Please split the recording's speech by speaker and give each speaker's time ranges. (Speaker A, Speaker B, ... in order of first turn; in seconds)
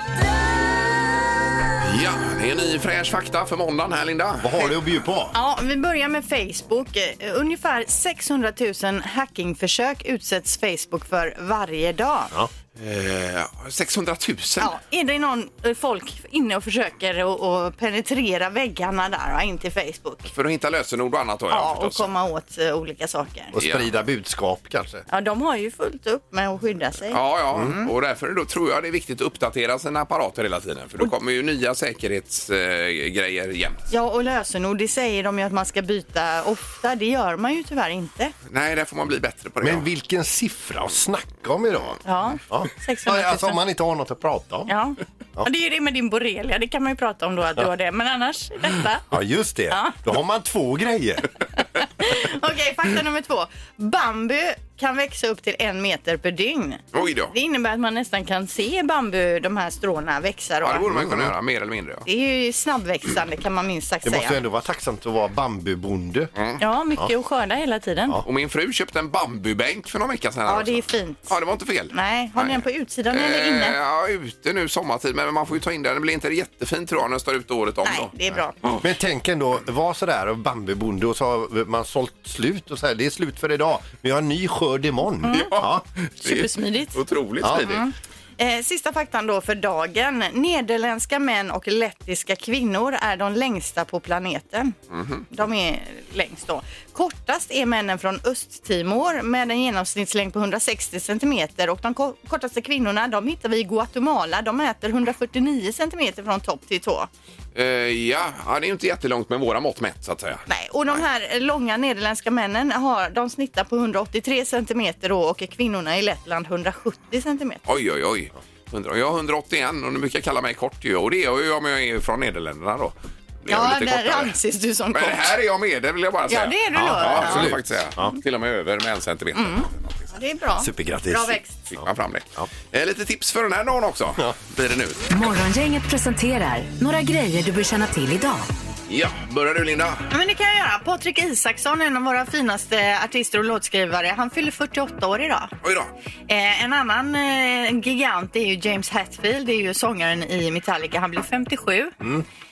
Speaker A: 1.8-4.6, 12.8-14.8, 20.3-22.1, 23.6-23.9, 27.1-33.8, 38.5-39.9, 56.9-57.3, 60.6-62.0, 66.3-66.6, 68.2-78.9, 85.3-87.8, 94.9-95.2, 107.5-110.4, 117.7-124.3, 124.9-130.1, 131.8-135.0, 138.9-140.1, 145.6-145.9
Speaker B: 4.4-5.3, 23.5-25.0, 39.6-44.7, 49.1-51.3, 60.9-61.3, 64.0-66.3, 78.8-85.8, 87.4-87.7, 126.7-128.1, 130.6-131.8
Speaker C: 5.3-12.3, 14.6-20.3, 21.5-23.5, 25.1-27.9, 33.9-38.3, 42.0-43.6, 44.7-49.0, 49.7-50.0, 51.8-60.9, 62.0-64.4, 66.6-68.2, 70.5-71.3, 71.9-73.8, 77.8-78.5, 85.2-85.5, 86.2-94.7, 95.3-107.1, 110.5-117.6, 123.5-125.3, 126.3-127.5, 129.3-131.6, 140.1-145.5, 146.3-152.0
Speaker D: 135.1-138.5